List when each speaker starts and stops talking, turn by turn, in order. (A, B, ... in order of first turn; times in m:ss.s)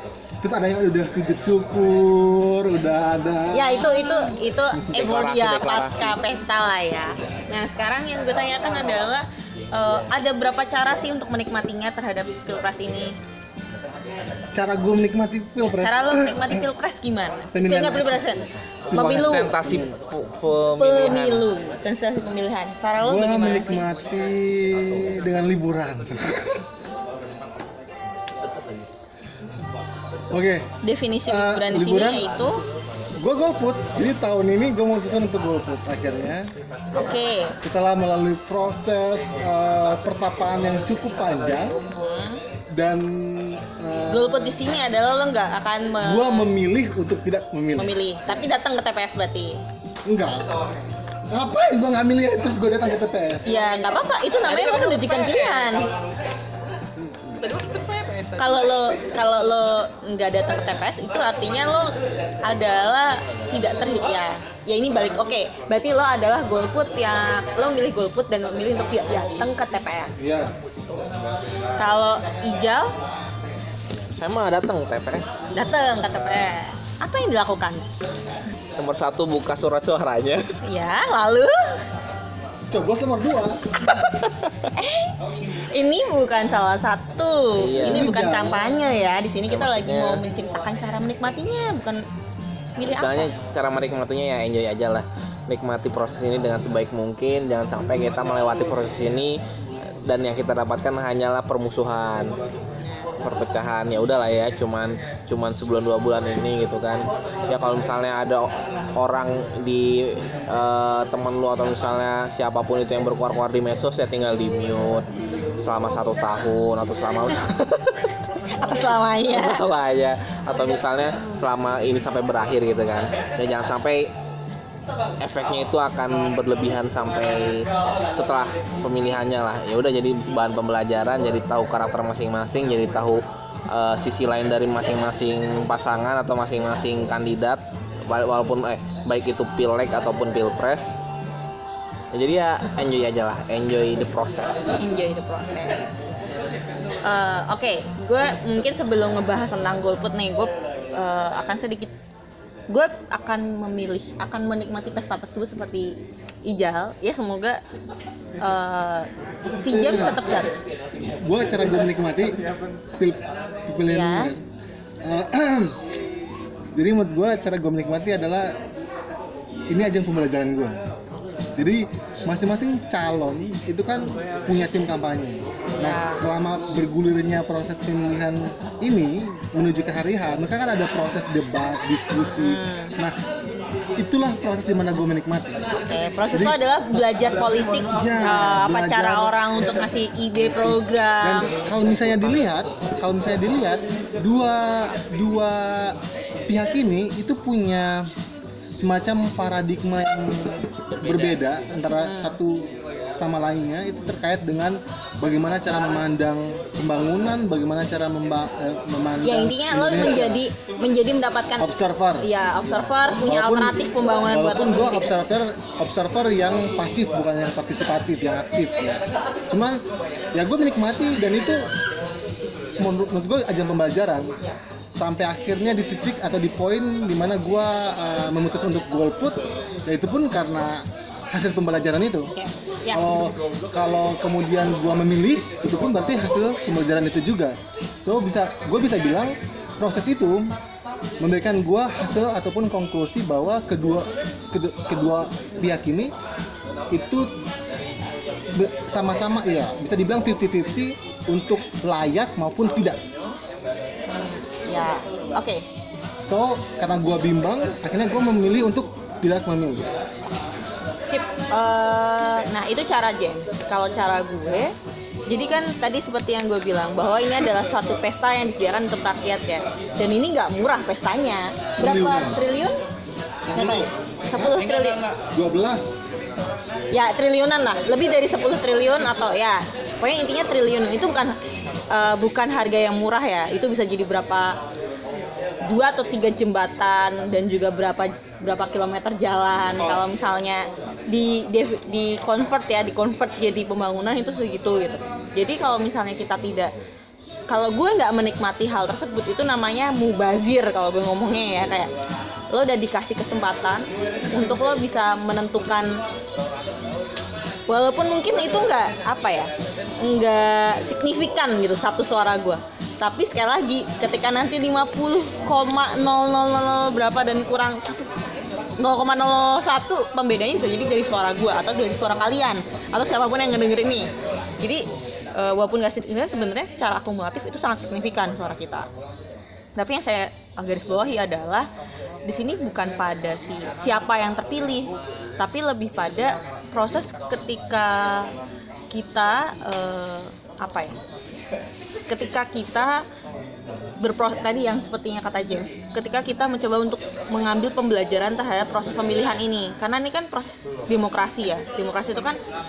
0:00.4-0:04.2 A
0:03.5-0:13.1 B
0:04.9-0:06.2 C
0:14.5-0:16.6 A
0:15.8-0:18.4 B
0:17.5-0:18.1 A
0:18.9-0:19.9 A
0:18.9-0:19.5 B
0:19.0-0:21.4 C
0:20.8-0:23.8 B
0:23.0-0:26.6 A
0:30.3-0:30.7 A
0:30.8-0:32.6 B
0:31.2-0:32.3 A
0:33.2-0:36.5 A
0:37.0-0:37.6 B
0:37.6-0:41.8 A
0:41.9-0:42.4 B
0:42.7-0:44.6 A
0:44.1-0:46.5 B
0:46.0-0:48.5 A
0:47.8-0:49.6 B
0:50.0-0:50.5 A
0:51.3-0:53.8 A
0:53.4-0:55.9 B
0:54.4-0:55.8 C
0:57.0-0:57.4 A
0:57.3-0:58.7 C
0:58.4-1:10.4 B
1:10.2-1:10.5 A
1:11.8-1:12.9 B
1:14.1-1:15.3 C
1:15.5-1:17.8 B
1:18.8-1:20.5 C
1:20.6-1:21.6 B
1:22.7-1:23.6 A
1:24.1-1:24.6 C
1:24.7-1:32.0 B
1:27.6-1:28.1 C
1:27.8-1:28.6 A
1:29.5-1:30.2 C
1:32.8-1:33.3 B
1:32.8-1:39.4 C
1:40.0-1:42.4 C
1:43.2-1:55.1 C
1:55.6-1:58.1 C
1:58.5-1:59.6 B
1:59.3-2:04.1 C
2:05.2-2:20.9 C
2:22.1-2:24.7 C
2:24.8-2:26.0 B
2:27.0-2:31.9 B
2:32.7-2:35.9 B
2:36.4-2:37.6 B
2:38.4-2:39.1 B
2:39.4-2:40.2 A
2:39.6-2:40.5 B
2:41.2-2:42.4 A
2:43.0-2:44.4 A
2:43.9-2:44.3 B
2:45.0-2:45.8 A
2:46.7-2:48.5 A
2:49.7-2:50.8 A
2:51.6-3:03.2 A
2:55.8-2:56.2 B
3:02.4-3:02.9 B
3:04.0-3:05.6 A
3:05.8-3:11.5 B
3:06.3-3:06.6 A
3:07.9-3:09.6 A
3:10.4-3:16.0 A
3:16.5-3:18.1 A
3:18.8-3:30.4 A
3:21.9-3:22.4 B
3:29.2-3:31.7 B
3:31.6-3:38.8 A
3:32.2-3:35.1 B
3:39.5-3:39.8 A
3:40.3-3:41.7 A
3:42.8-3:44.4 A
3:45.0-3:52.3 A
3:52.3-3:53.0 B
3:52.9-4:00.5 A
4:01.2-4:06.1 A
4:06.9-4:07.3 A
4:08.5-4:13.0 A
4:14.1-4:15.6 B
4:16.2-4:19.9 A
4:21.1-4:24.7 B
4:25.3-4:32.8 B
4:31.8-4:32.4 A
4:33.4-4:34.6 A
4:33.5-4:35.0 B
4:34.6-4:35.2 C
4:35.3-4:35.9 A
4:36.9-4:41.4 B
4:41.9-4:44.6 B
4:45.6-4:56.7 B
4:57.5-5:01.9 B
5:02.5-5:06.0 B
5:07.7-5:18.1 B
5:18.8-5:24.1 B
5:25.3-5:28.9 B
5:29.8-5:31.7 B
5:32.2-5:38.3 B
5:38.9-5:41.0 B
5:42.1-5:43.0 B
5:44.0-5:52.4 B